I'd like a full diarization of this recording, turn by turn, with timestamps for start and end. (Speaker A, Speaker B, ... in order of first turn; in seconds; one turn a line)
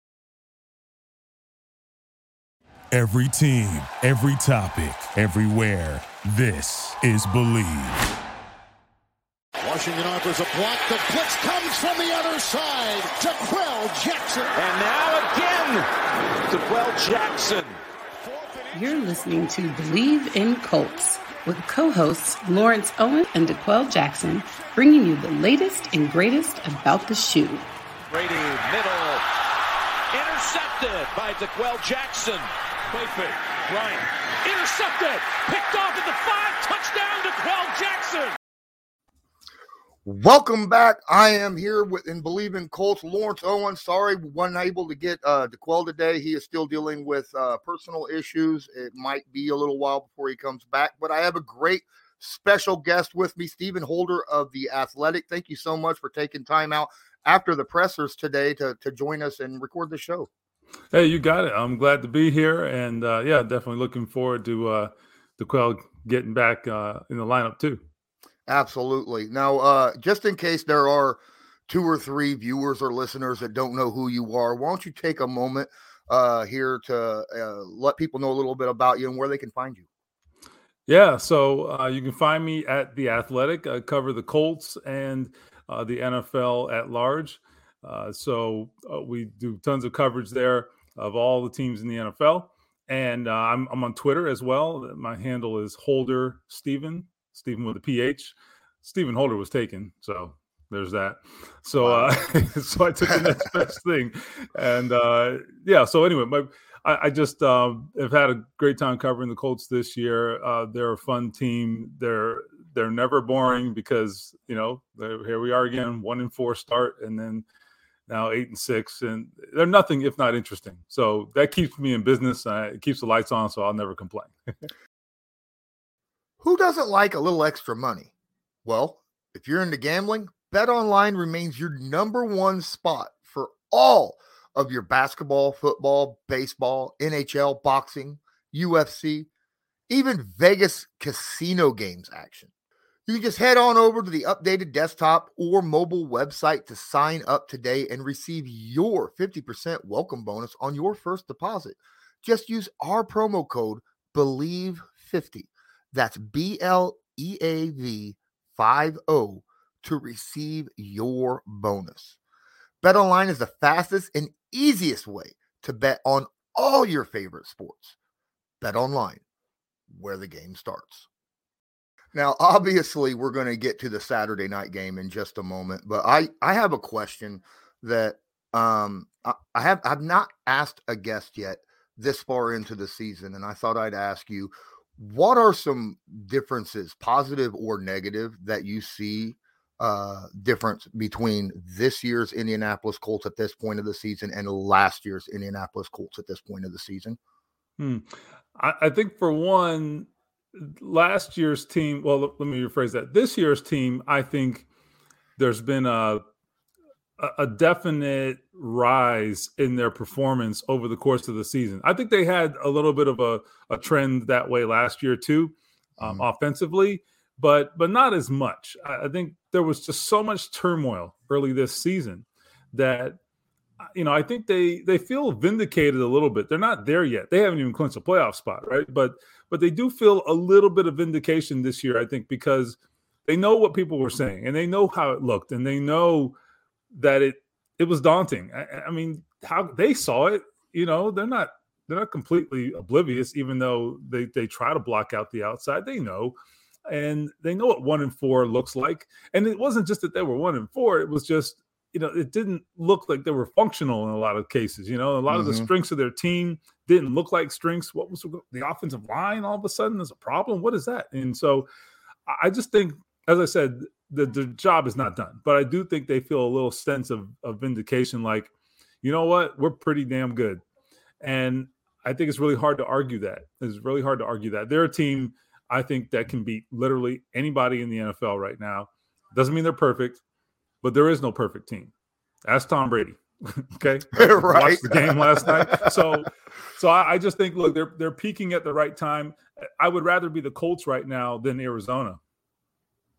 Speaker A: 2.9-8.0
Speaker B: 9.6-14.5
Speaker C: 14.6-15.9
Speaker C: 16.5-17.8
Speaker B: 18.3-18.6
Speaker D: 18.7-27.7
Speaker C: 28.1-29.2
Speaker C: 30.1-38.4
Speaker E: 40.0-60.3
Speaker F: 60.9-67.8
Speaker E: 68.5-79.9
Speaker F: 80.9-117.5
Speaker E: 101.8-102.2
Speaker F: 118.1-124.3
Speaker E: 126.4-128.1
Speaker E: 128.7-139.3
Speaker E: 139.9-142.5
Speaker E: 143.1-162.2
Speaker E: 162.8-168.0
Speaker E: 168.6-169.2
Speaker E: 169.9-171.1
Speaker E: 172.1-197.2
Speaker F: 197.8-204.7
Speaker F: 205.4-206.2
Speaker F: 207.2-223.2
Speaker F: 223.9-236.3
Speaker F: 236.9-246.4
Speaker F: 246.9-261.7
Speaker E: 255.3-255.7
Speaker F: 262.3-268.5
Speaker F: 269.0-270.6
Speaker F: 271.2-280.2
Speaker F: 280.8-281.9
Speaker F: 282.5-292.2
Speaker E: 284.1-286.2